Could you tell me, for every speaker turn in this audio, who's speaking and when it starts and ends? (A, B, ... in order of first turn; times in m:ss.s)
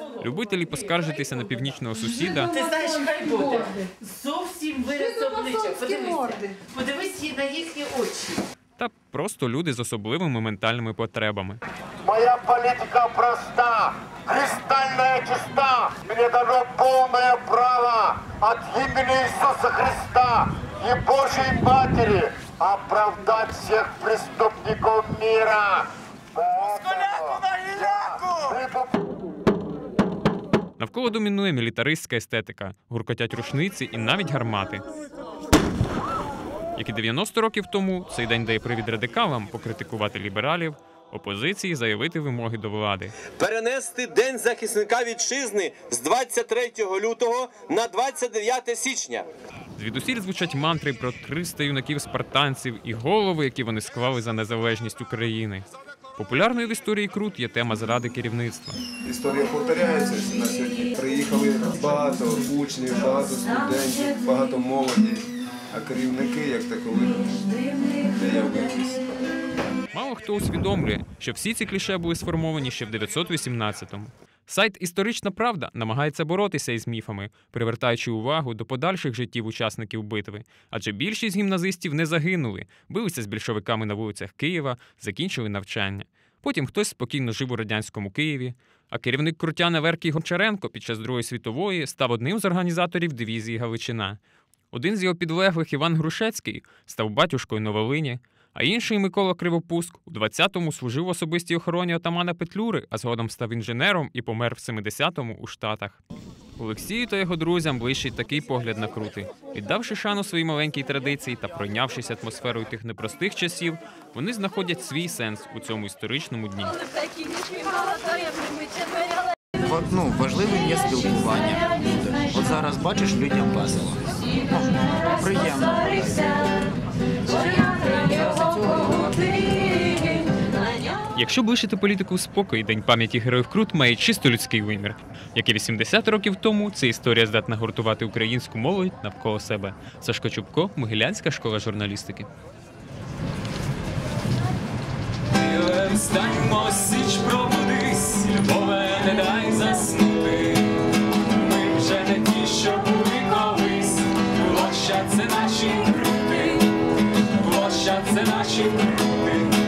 0:00.2-0:02.5 A
0:02.5-0:08.4 B
0:08.8-0:11.6 A
0:12.0-0:29.0 C
0:30.8-0:34.8 A
0:36.8-0:43.1 A
0:43.3-0:49.3 D
0:49.8-0:58.8 A
0:59.0-1:09.0 E
1:09.9-1:34.2 A
1:34.7-1:46.0 A
1:46.6-1:56.7 A
1:59.6-2:06.5 F
2:07.3-2:10.0 F
2:11.1-2:22.3 A
2:25.4-2:30.7 A
2:31.3-2:36.6 A
2:37.4-2:39.3 A